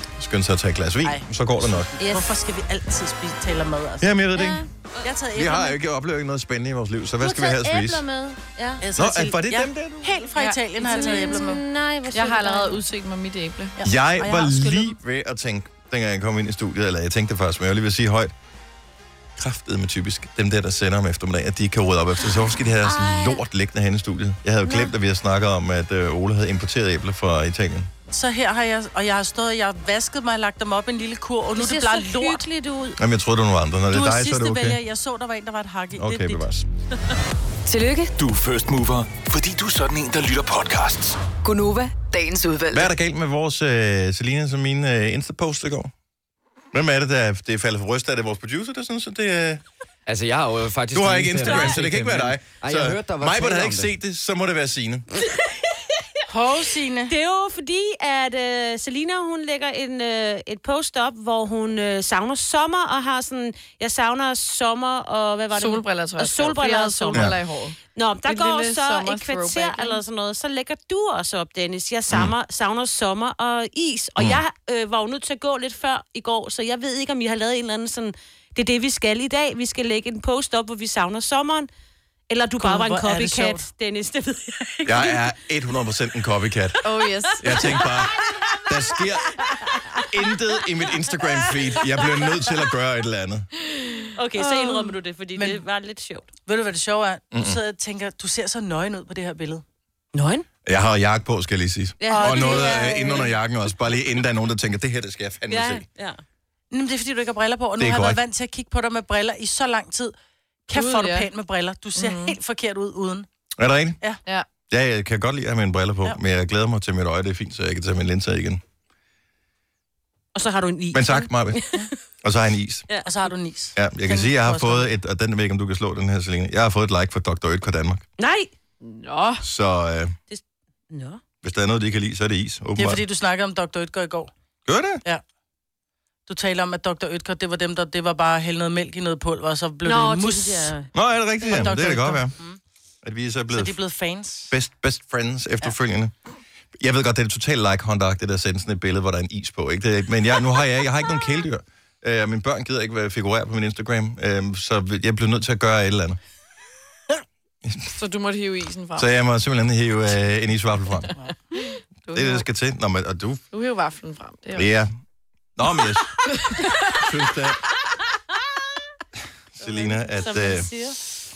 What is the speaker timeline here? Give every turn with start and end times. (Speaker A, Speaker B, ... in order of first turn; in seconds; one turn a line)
Speaker A: 0.2-1.9
Speaker B: 1.0-4.2
Speaker C: 2.0-2.3
Speaker A: 4.0-4.6
Speaker C: 4.3-5.1
Speaker B: 5.0-5.8
Speaker A: 5.3-8.0
Speaker C: 7.2-8.8
Speaker B: 8.8-11.6
Speaker A: 8.9-10.2
Speaker D: 10.4-11.4
Speaker C: 10.8-12.8
Speaker D: 12.1-13.8
Speaker B: 13.8-15.0
Speaker A: 13.8-18.3
Speaker A: 19.4-27.9
Speaker C: 22.8-23.4
Speaker C: 24.6-24.9
Speaker B: 28.1-32.5
Speaker C: 31.6-33.0
Speaker A: 33.0-34.8
Speaker B: 33.9-36.4
Speaker A: 36.0-36.7
Speaker E: 37.7-38.1
Speaker F: 38.2-41.2
Speaker E: 41.4-42.9
Speaker A: 42.7-45.9
Speaker A: 46.7-49.6
Speaker G: 50.1-53.9
Speaker A: 50.9-55.1
Speaker B: 56.3-57.1
Speaker C: 57.1-67.4
Speaker D: 65.5-70.0
Speaker C: 67.9-81.7
Speaker C: 82.3-85.2
Speaker B: 82.6-83.7
Speaker A: 84.9-86.8
Speaker D: 86.8-87.8
Speaker A: 87.4-89.5
Speaker C: 87.5-87.9
Speaker A: 90.1-93.5
Speaker D: 94.0-94.8
Speaker C: 94.2-96.3
Speaker B: 95.3-95.6
Speaker B: 96.5-99.6
Speaker A: 97.3-97.6
Speaker C: 100.1-100.5
Speaker A: 100.7-105.9
Speaker C: 102.0-103.3
Speaker B: 102.1-103.3
Speaker C: 105.5-106.2
Speaker B: 106.7-110.1
Speaker A: 107.8-108.2
Speaker B: 110.7-113.3
Speaker D: 110.7-111.3
Speaker D: 112.0-112.4
Speaker A: 113.6-114.0
Speaker A: 114.7-118.6
Speaker C: 120.3-121.9
Speaker A: 120.9-121.6
Speaker A: 122.2-122.9
Speaker B: 123.1-124.9
Speaker A: 123.8-128.1
Speaker C: 128.2-128.5
Speaker D: 128.8-129.4
Speaker A: 129.4-130.2
Speaker C: 130.3-131.2
Speaker A: 131.4-133.0
Speaker B: 132.8-134.3
Speaker A: 134.7-135.0
Speaker B: 136.3-140.7
Speaker C: 139.8-140.9
Speaker A: 140.9-142.3
Speaker B: 141.4-142.6
Speaker A: 143.0-143.8
Speaker B: 143.5-144.5
Speaker A: 144.5-146.1
Speaker A: 146.8-156.2
Speaker A: 157.6-157.9
Speaker D: 157.9-159.1
Speaker A: 159.0-161.2
Speaker D: 161.6-162.5
Speaker A: 162.1-163.4
Speaker D: 163.5-164.7
Speaker A: 164.6-164.9
Speaker A: 165.6-167.7
Speaker D: 166.4-166.7
Speaker A: 169.6-170.7
Speaker C: 169.6-171.0